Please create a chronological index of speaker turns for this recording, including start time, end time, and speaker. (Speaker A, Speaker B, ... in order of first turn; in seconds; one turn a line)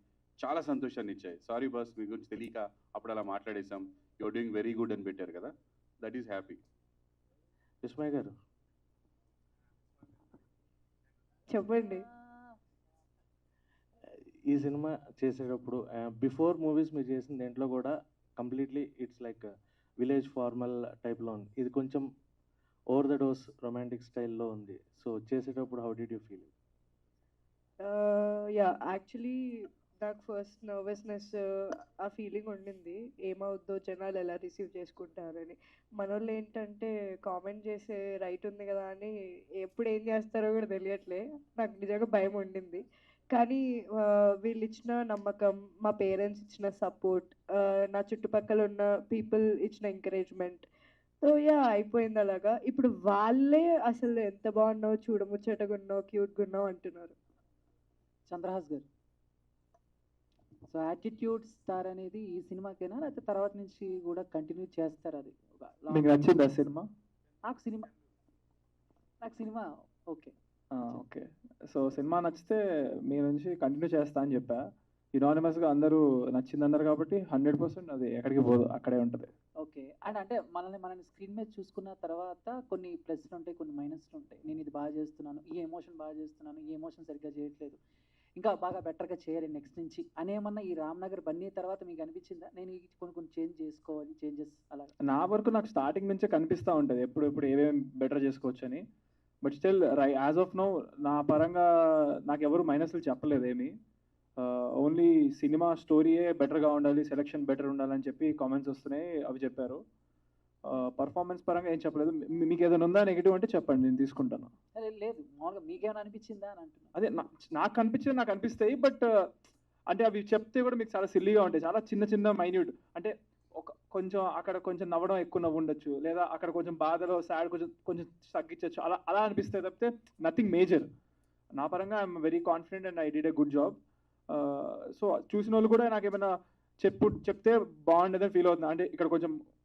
Speaker A: 0.4-5.5
Speaker A: 6.0-6.6
Speaker B: 7.8-8.3
Speaker C: 11.5-12.1
Speaker B: 14.5-22.1
Speaker B: 22.9-26.5
Speaker C: 27.8-31.4
Speaker C: 32.0-50.7
Speaker C: 51.2-57.1
Speaker D: 58.3-58.9
Speaker D: 60.7-66.1
Speaker E: 65.9-66.9
Speaker D: 67.5-67.9
Speaker D: 69.2-70.3
Speaker E: 70.8-79.3
Speaker D: 79.6-87.8
Speaker D: 88.4-94.9
Speaker E: 95.1-98.8
Speaker E: 99.4-101.7
Speaker E: 102.3-103.7
Speaker E: 104.4-109.8
Speaker E: 110.7-114.5
Speaker D: 114.8-116.9
Speaker E: 116.9-119.3
Speaker E: 119.9-130.9
Speaker E: 131.6-133.8
Speaker E: 134.3-136.3
Speaker E: 136.8-139.3